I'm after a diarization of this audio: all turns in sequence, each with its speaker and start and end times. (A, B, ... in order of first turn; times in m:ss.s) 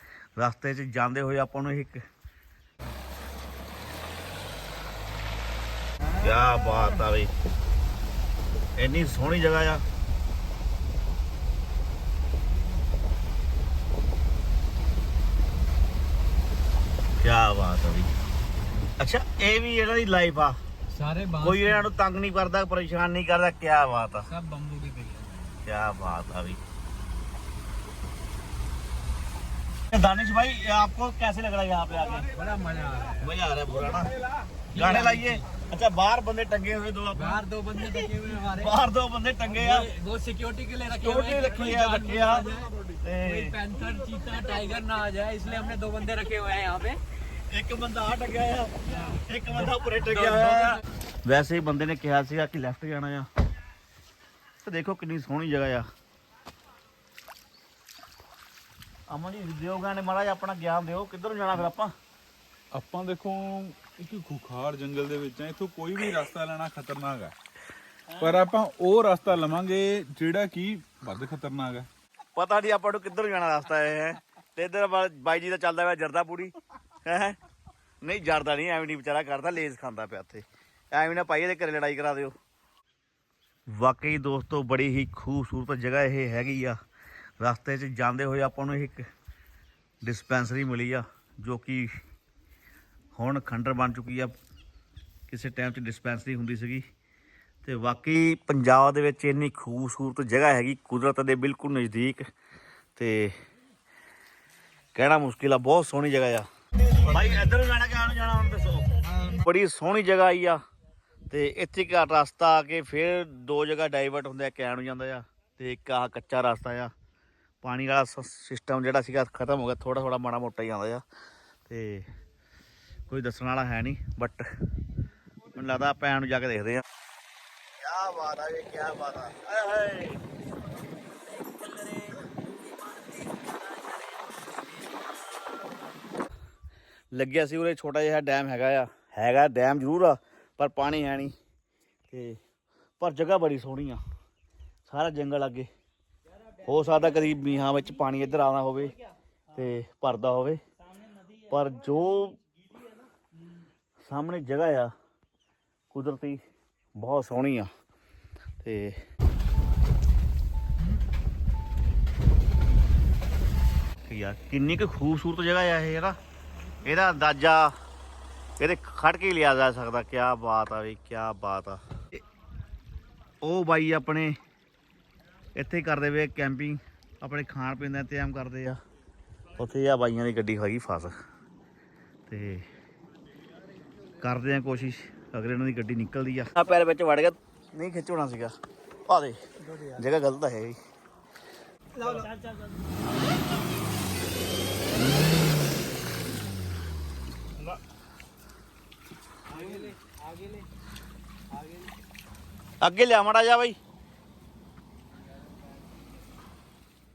0:00.4-0:02.0 A
0:06.2-0:07.3 A
0:08.8-0:09.8 A
0:17.2-0:18.1 A
0:19.0-0:20.6 A
0:20.9-0:21.9 B
0:21.4-0:24.3 A
0:24.2-0:25.6 B
0:25.6-0:26.6 A
0:29.9-0:32.3 A
0:32.2-0:33.3 B
0:33.2-0:34.1 A
0:34.7-0:35.4 B
0:34.7-0:39.9 A
0:37.1-0:38.8 B
0:39.5-0:47.0 B
0:40.9-0:43.6 A
0:47.5-0:53.3 A
0:50.2-0:50.8 B
0:54.6-0:55.9 A
0:59.1-1:01.9 A
1:02.7-1:07.3 C
1:08.2-1:11.9 C
1:12.3-1:16.5 A
1:17.0-1:17.4 A
1:18.0-1:22.3 A
1:23.7-1:26.8 A
1:27.4-1:29.0 A
1:30.0-1:31.9 A
1:33.1-1:34.3 A
1:35.3-1:36.8 A
1:37.6-1:42.2 A
1:43.0-1:43.3 A
1:44.9-1:50.6 A
1:51.3-1:56.9 A
1:57.6-2:01.0 A
2:01.6-2:02.1 A
2:03.1-2:04.5 A
2:05.5-2:06.8 A
2:07.8-2:10.2 A
2:11.5-2:12.2 A
2:13.2-2:13.5 A
2:17.1-2:21.3 A
2:22.1-2:22.4 A
2:23.0-2:24.0 A
2:24.8-2:25.7 A
2:26.6-2:29.0 A
2:29.5-2:30.6 A
2:31.5-2:32.4 A
2:34.0-2:34.9 A
2:35.9-2:36.4 A
2:37.0-2:37.7 A
2:38.6-2:39.0 A
2:44.0-2:46.2 A
2:46.8-2:47.7 A
2:48.6-2:52.2 A
2:53.4-2:54.4 A
2:55.5-2:58.8 A
2:59.6-3:01.1 A
3:02.3-3:02.6 A
3:04.2-3:08.5 A
3:09.1-3:10.8 A
3:12.0-3:12.5 B
3:19.5-3:20.6 B
3:21.6-3:21.8 B
3:22.8-3:23.8 A